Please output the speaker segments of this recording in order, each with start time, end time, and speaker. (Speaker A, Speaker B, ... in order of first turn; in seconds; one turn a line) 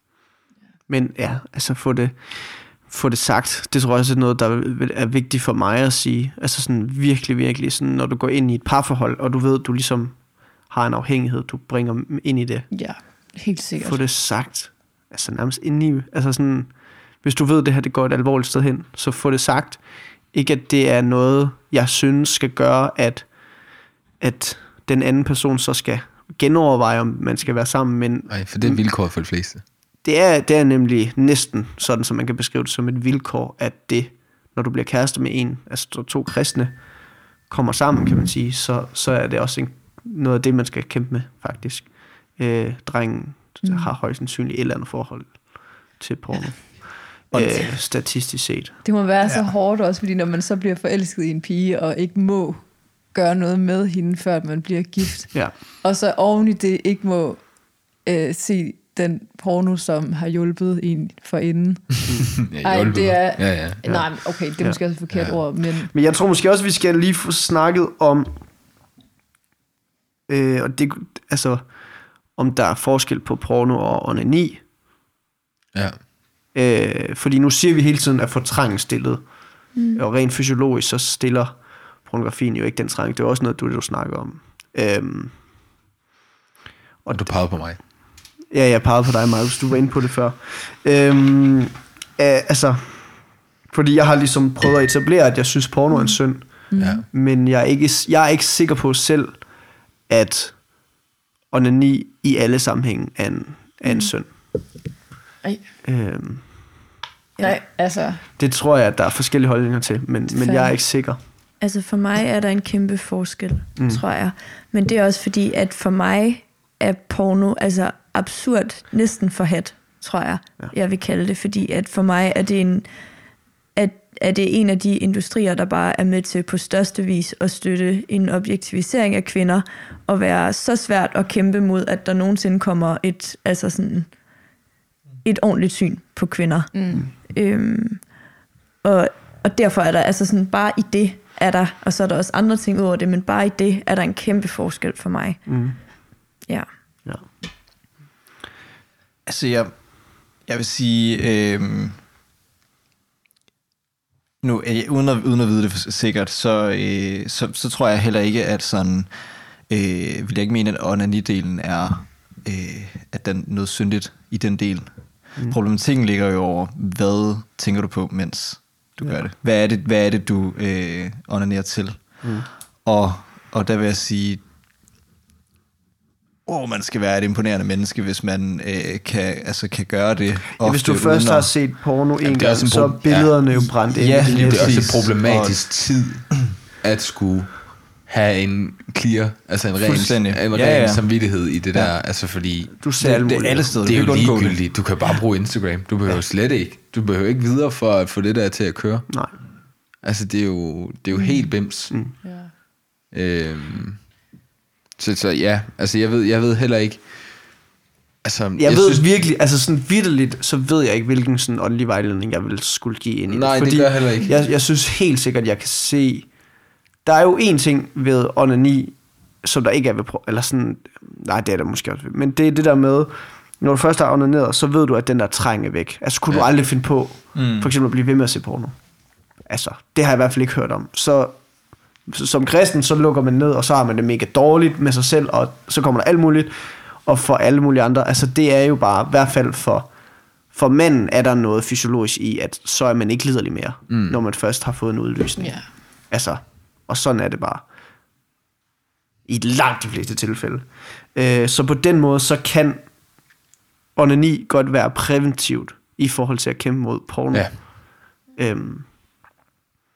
Speaker A: 0.9-28.8
Speaker B: 12.7-14.0
Speaker C: 28.3-29.6
Speaker A: 30.0-48.8
Speaker B: 43.6-43.9
Speaker D: 47.3-47.8
Speaker B: 48.8-65.9
Speaker D: 49.2-49.5
Speaker C: 62.5-64.2
Speaker A: 63.8-65.3
Speaker C: 65.1-65.4
Speaker A: 65.9-68.4
Speaker A: 70.3-74.7
Speaker C: 75.7-76.0
Speaker A: 76.5-85.4
Speaker E: 79.8-80.0
Speaker A: 87.0-87.9
Speaker C: 87.1-87.8
Speaker A: 88.5-101.0
Speaker E: 95.9-96.2
Speaker B: 96.7-97.0
Speaker C: 96.8-97.0
Speaker A: 101.5-104.3
Speaker E: 103.8-104.1
Speaker A: 105.8-106.9
Speaker B: 107.4-108.2
Speaker A: 108.4-111.2
Speaker B: 110.3-110.7
Speaker E: 111.6-122.9
Speaker A: 113.8-114.0
Speaker E: 123.8-134.2
Speaker E: 135.2-138.2
Speaker B: 136.7-137.1
Speaker E: 138.8-145.9
Speaker A: 145.5-146.4
Speaker E: 146.4-147.1
Speaker D: 149.2-152.0
Speaker D: 154.4-174.4
Speaker A: 169.0-169.3
Speaker A: 172.2-172.5
Speaker D: 176.5-181.6
Speaker A: 180.6-184.8
Speaker C: 182.2-183.6
Speaker D: 183.6-186.1
Speaker C: 184.1-192.7
Speaker D: 189.8-191.9
Speaker A: 192.7-193.7
Speaker D: 193.0-194.8
Speaker C: 193.8-202.5
Speaker A: 199.1-199.3
Speaker B: 201.2-201.5
Speaker B: 202.2-202.5
Speaker C: 203.1-204.2
Speaker C: 205.0-207.7
Speaker C: 208.2-209.3
Speaker A: 208.6-247.7
Speaker C: 213.3-214.3
Speaker D: 227.3-227.7
Speaker C: 243.9-244.2
Speaker B: 245.4-245.7
Speaker A: 249.3-253.1
Speaker A: 253.9-258.9